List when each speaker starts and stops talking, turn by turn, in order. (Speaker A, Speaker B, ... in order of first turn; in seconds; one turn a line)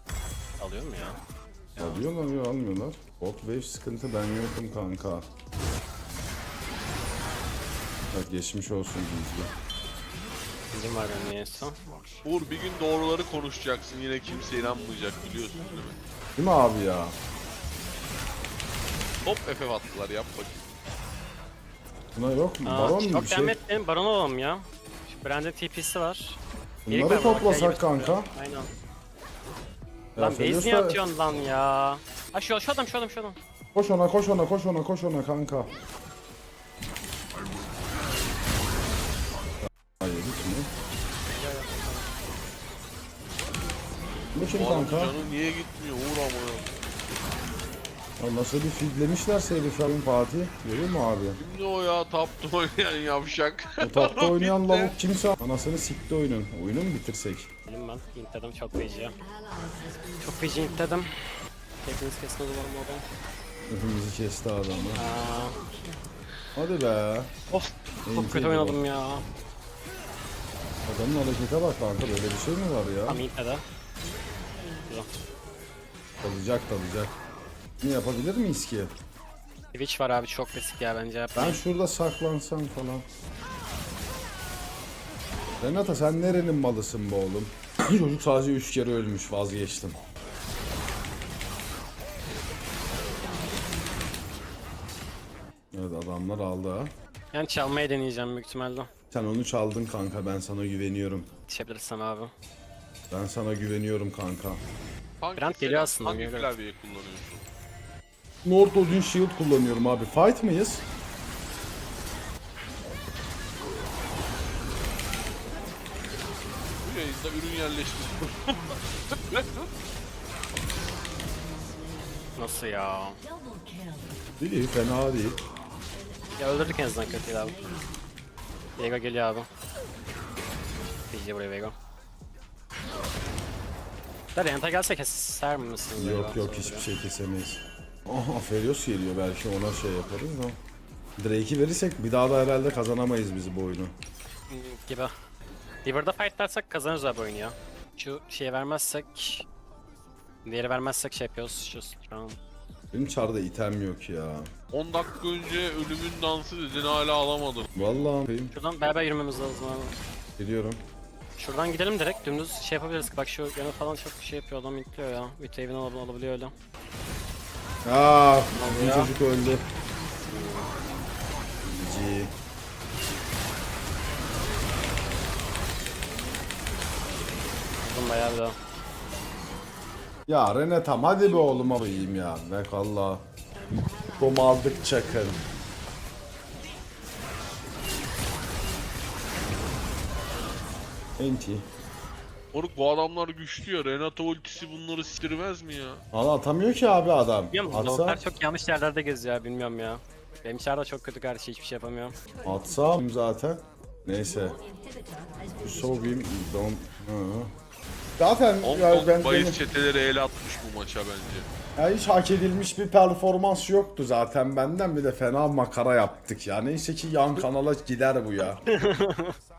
Speaker A: 0.6-1.2
Speaker A: 1.8-2.0
Speaker B: 1.8-5.3
Speaker B: 8.1-9.5
Speaker A: 10.7-11.8
Speaker C: 12.2-16.0
Speaker B: 16.4-17.2
Speaker C: 19.2-20.6
Speaker B: 22.1-23.6
Speaker A: 22.7-26.4
Speaker B: 26.9-28.3
Speaker A: 26.9-28.7
Speaker B: 30.1-31.0
Speaker A: 30.2-33.4
Speaker B: 33.8-35.7
Speaker B: 39.6-40.7
Speaker A: 41.3-42.1
Speaker B: 44.3-45.2
Speaker C: 44.5-46.7
Speaker B: 48.2-51.4
Speaker C: 51.4-54.9
Speaker B: 53.8-57.5
Speaker A: 57.7-59.2
Speaker A: 60.2-61.1
Speaker A: 61.9-63.0
Speaker B: 63.7-65.0
Speaker A: 65.0-65.6
Speaker B: 66.6-67.3
Speaker A: 67.5-69.2
Speaker B: 68.0-68.8
Speaker B: 70.9-73.2
Speaker A: 73.1-73.6
Speaker A: 74.8-75.1
Speaker B: 76.2-77.2
Speaker B: 77.8-78.9
Speaker A: 79.7-81.6
Speaker B: 81.3-83.1
Speaker B: 85.6-90.0
Speaker B: 95.7-96.9
Speaker A: 97.3-98.9
Speaker B: 99.1-101.3
Speaker A: 101.5-102.3
Speaker B: 103.1-104.6
Speaker C: 105.2-107.4
Speaker A: 105.4-106.5
Speaker B: 108.4-110.8
Speaker C: 116.8-119.7
Speaker A: 122.4-123.2
Speaker B: 124.4-125.4
Speaker A: 126.4-127.6
Speaker A: 128.8-129.5
Speaker A: 131.1-131.8
Speaker A: 134.3-136.9
Speaker B: 136.0-140.6
Speaker B: 141.2-143.9
Speaker A: 144.5-145.1
Speaker A: 145.8-149.5
Speaker A: 150.4-152.4
Speaker B: 152.9-154.5
Speaker C: 154.7-157.7
Speaker B: 157.8-158.5
Speaker A: 158.5-160.0
Speaker B: 160.4-160.8
Speaker A: 161.4-166.5
Speaker B: 167.8-169.6
Speaker A: 168.5-169.1
Speaker A: 170.3-170.7
Speaker B: 171.7-172.3
Speaker A: 177.8-178.6
Speaker B: 180.3-185.4
Speaker B: 191.2-191.7
Speaker C: 192.5-196.0
Speaker B: 196.1-198.2
Speaker A: 197.5-202.2
Speaker B: 202.4-204.6
Speaker B: 205.6-207.5
Speaker B: 208.2-209.6
Speaker C: 208.6-211.5
Speaker B: 211.8-218.6
Speaker A: 218.7-219.4